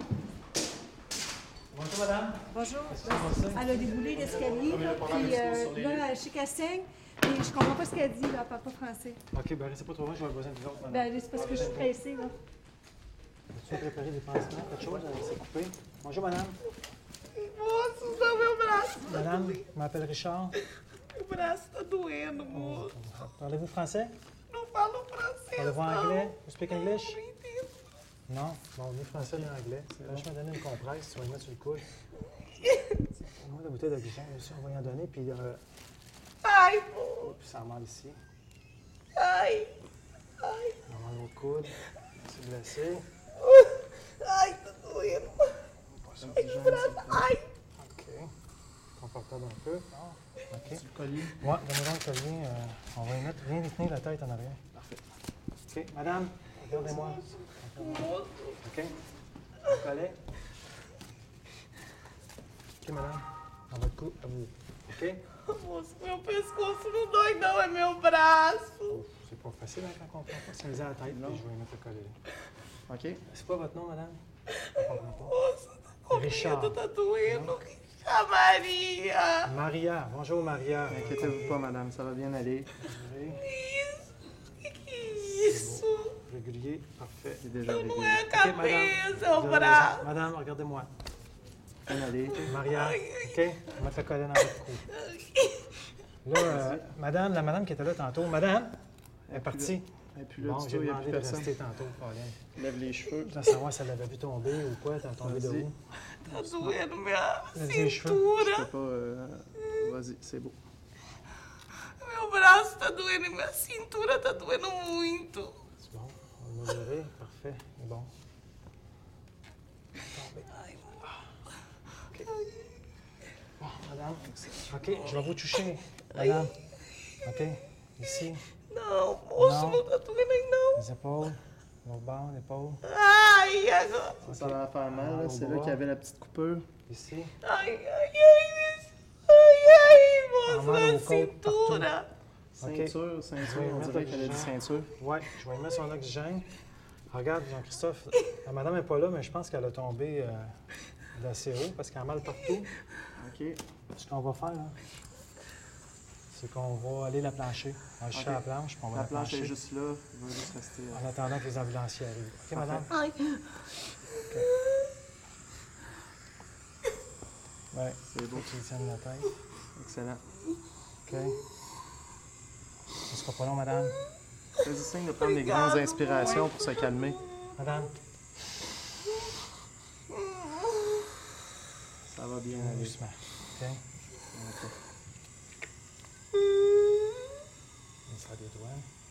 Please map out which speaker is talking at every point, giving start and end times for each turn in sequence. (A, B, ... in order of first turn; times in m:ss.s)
0:01.7-0:03.9 A
0:02.6-0:09.2 B
0:04.0-0:06.1 C
0:09.3-0:12.0 A
0:10.9-0:12.4 B
0:13.5-0:16.6 A
0:17.3-0:19.6 D
0:19.1-0:20.6 A
0:21.1-0:22.9 D
0:22.3-0:24.2 A
0:24.5-0:27.7 D
0:25.5-0:27.2 A
0:28.3-0:31.8 A
0:30.0-0:30.2 C
0:32.6-0:33.0 D
0:33.2-0:35.6 A
0:36.4-0:37.3 D
0:37.2-0:38.2 A
0:39.2-0:39.7 D
0:40.4-0:40.8 D
0:40.8-0:43.1 A
0:43.4-0:45.5 D
0:45.9-0:46.4 A
0:46.2-0:47.3 C
0:46.4-0:47.5 D
0:47.8-0:48.3 A
0:49.0-0:50.8 A
0:50.7-0:51.4 C
0:51.4-0:54.6 A
0:54.7-0:55.0 C
0:55.7-0:59.0 A
0:56.7-0:58.6 D
0:59.6-1:00.2 A
1:02.8-1:05.2 A
1:05.5-1:09.0 D
1:08.9-1:12.2 A
1:11.1-1:11.4 C
1:12.9-1:13.2 C
1:13.3-1:14.2 A
1:14.7-1:15.4 A
1:15.1-1:19.5 D
1:16.1-1:17.6 A
1:19.4-1:21.7 A
1:20.9-1:22.7 C
1:22.8-1:23.5 A
1:23.4-1:24.1 D
1:24.6-1:26.2 D
1:25.3-1:27.5 A
1:27.4-1:28.3 C
1:27.7-1:30.0 D
1:28.3-1:30.9 A
1:31.9-1:32.6 C
1:32.4-1:34.9 A
1:32.6-1:33.3 D
1:34.9-1:35.7 D
1:36.2-1:38.8 A
1:36.5-1:36.9 C
1:39.3-1:41.5 C
1:39.3-1:42.4 A
1:42.6-1:43.4 C
1:43.2-1:45.8 A
1:45.2-1:45.7 C
1:46.3-1:48.7 D
1:46.3-1:46.7 C
1:47.5-1:48.3 A
1:48.4-1:50.6 C
1:52.0-1:55.6 D
1:55.8-1:58.1 A
2:00.1-2:01.1 A
2:02.3-2:02.6 D
2:03.6-2:06.6 A
2:04.2-2:04.7 C
2:06.2-2:06.5 D
2:07.2-2:08.4 A
2:08.7-2:10.8 D
2:09.4-2:09.9 A
2:10.7-2:12.8 A
2:12.8-2:14.2 D
2:14.2-2:15.8 A
2:14.3-2:16.7 C
2:16.9-2:17.3 A
2:17.4-2:22.1 D
2:20.5-2:21.9 A
2:22.6-2:26.5 A
2:22.6-2:24.9 C
2:27.1-2:30.6 A
2:31.1-2:32.7 A
2:33.2-2:33.6 C
2:33.9-2:34.8 A
2:36.3-2:39.6 A
2:38.1-2:41.1 C
2:40.9-2:42.9 A
2:42.5-2:42.9 C
2:47.7-2:49.3 A
2:48.1-2:48.5 C
2:49.8-2:50.2 C
2:51.1-2:51.4 A
2:53.1-2:54.0 A
2:54.6-2:57.2 C
2:55.4-2:56.9 D
2:57.6-2:57.9 A
3:00.3-3:00.7 D
3:02.1-3:03.0 C
3:02.5-3:03.8 A
3:04.3-3:04.8 C
3:08.1-3:08.9 A